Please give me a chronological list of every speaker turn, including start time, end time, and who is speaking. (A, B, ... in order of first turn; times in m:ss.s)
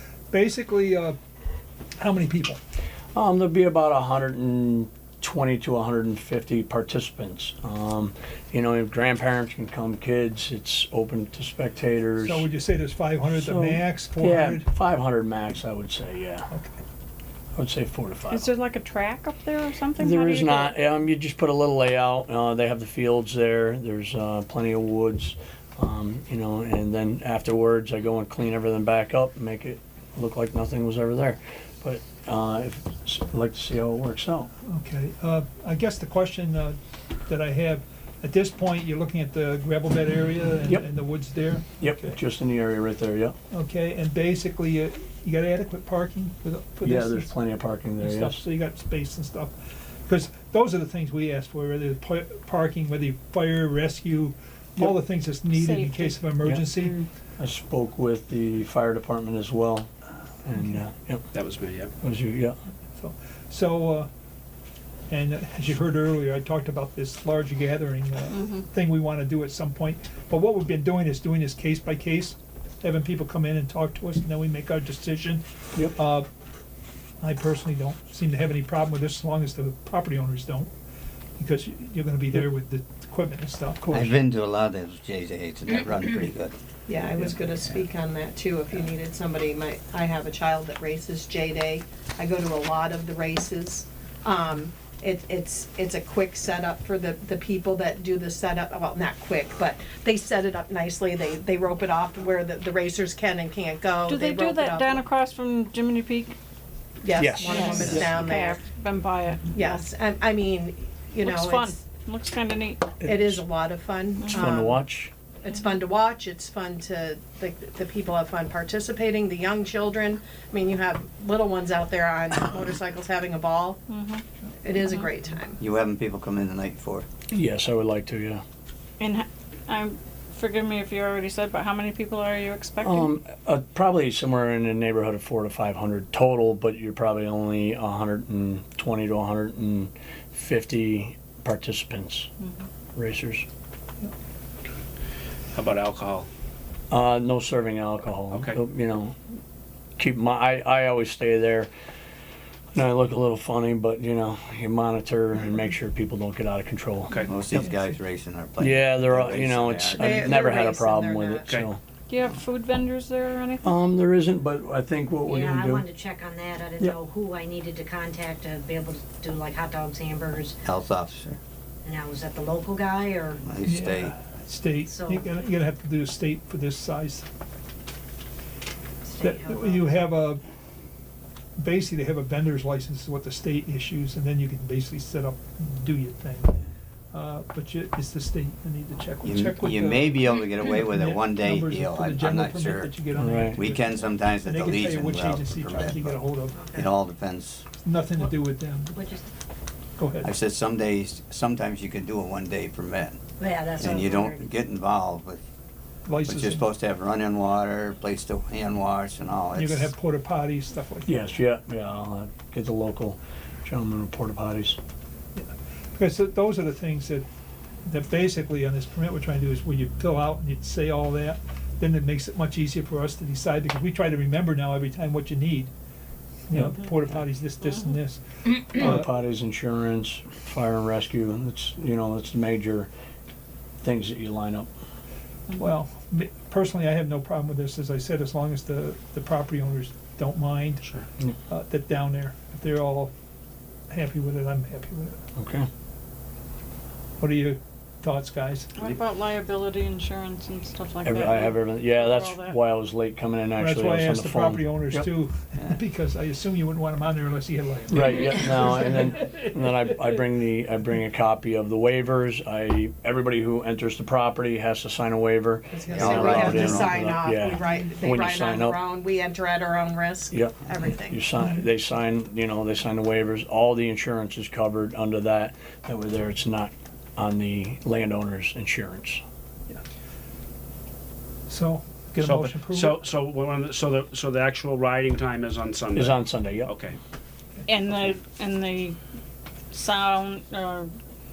0:00.3-0:01.2 A
0:02.0-0:02.6 A
0:03.1-0:12.4 B
0:12.2-0:14.7 A
0:13.3-0:16.5 B
0:16.5-0:16.8 A
0:17.6-0:18.5 B
0:18.3-0:20.8 C
0:20.0-0:34.5 B
0:34.6-0:42.2 A
0:41.8-0:43.4 B
0:43.5-0:47.3 A
0:46.8-0:48.4 B
0:48.0-0:49.5 A
0:50.1-0:57.0 A
0:55.5-0:56.2 C
0:57.4-0:59.9 B
1:00.4-1:01.3 B
1:01.3-1:01.9 D
1:02.0-1:02.6 B
1:03.0-1:04.1 A
1:05.1-1:16.3 A
1:17.2-1:20.7 A
1:21.4-1:24.1 A
1:23.8-1:24.1 B
1:23.9-1:26.6 E
1:26.9-1:45.0 F
1:27.2-1:27.6 E
1:44.0-1:46.4 C
1:47.0-1:48.6 F
1:47.2-1:48.1 B
1:47.4-1:49.8 C
1:49.5-1:51.8 F
1:51.2-1:52.9 C
1:53.0-1:53.4 B
1:53.0-1:54.8 F
1:54.2-1:54.5 C
1:54.3-1:55.1 B
1:55.4-2:03.8 F
2:03.9-2:04.2 C
2:04.6-2:05.6 F
2:04.8-2:05.1 C
2:05.6-2:07.1 E
2:07.3-2:08.4 B
2:09.0-2:13.1 C
2:12.8-2:22.3 B
2:23.0-2:23.5 B
2:25.5-2:26.3 D
2:26.9-2:29.2 B
2:28.3-2:28.6 D
2:30.0-2:31.7 B
2:32.8-2:37.2 B
2:37.3-2:40.3 E
2:38.6-2:41.8 B
2:39.9-2:41.5 F
2:42.1-2:43.7 C
2:43.6-2:45.8 B
2:45.2-2:50.6 G
2:50.6-2:51.4 E
2:51.8-2:53.4 G
2:53.4-2:54.1 E
2:53.6-2:57.3 A
2:54.8-2:55.3 G
2:59.0-3:00.0 G
2:59.2-3:00.4 A
3:01.6-3:16.8 A
3:09.2-3:12.9 E
3:13.2-3:13.6 B
3:13.5-3:16.2 E
3:16.6-3:16.8 G
3:16.8-3:17.6 E
3:17.8-3:19.0 A
3:19.0-3:19.3 G
3:20.0-3:20.3 A
3:20.2-3:23.2 E
3:23.4-3:24.5 G
3:23.8-3:25.4 E
3:26.1-3:26.7 A
3:26.3-3:29.9 E
3:29.6-3:31.1 A
3:31.1-3:34.8 B
3:35.4-3:37.3 A
3:37.9-3:45.7 A
3:46.5-3:49.1 A
3:48.7-3:52.9 B
3:53.8-3:54.7 B
3:55.6-4:00.9 A
4:01.5-4:03.1 A
4:03.9-4:05.2 A
4:05.4-4:05.7 B
4:07.2-4:08.8 A
4:08.8-4:12.6 C
4:11.0-4:15.1 B
4:13.6-4:20.0 A
4:17.9-4:28.8 B
4:25.7-4:31.2 F
4:25.9-4:27.0 E
4:30.3-4:39.2 B
4:41.5-4:43.0 A
4:42.2-4:47.0 D
4:46.0-4:46.7 B
4:47.7-4:49.0 C
4:49.7-4:50.9 C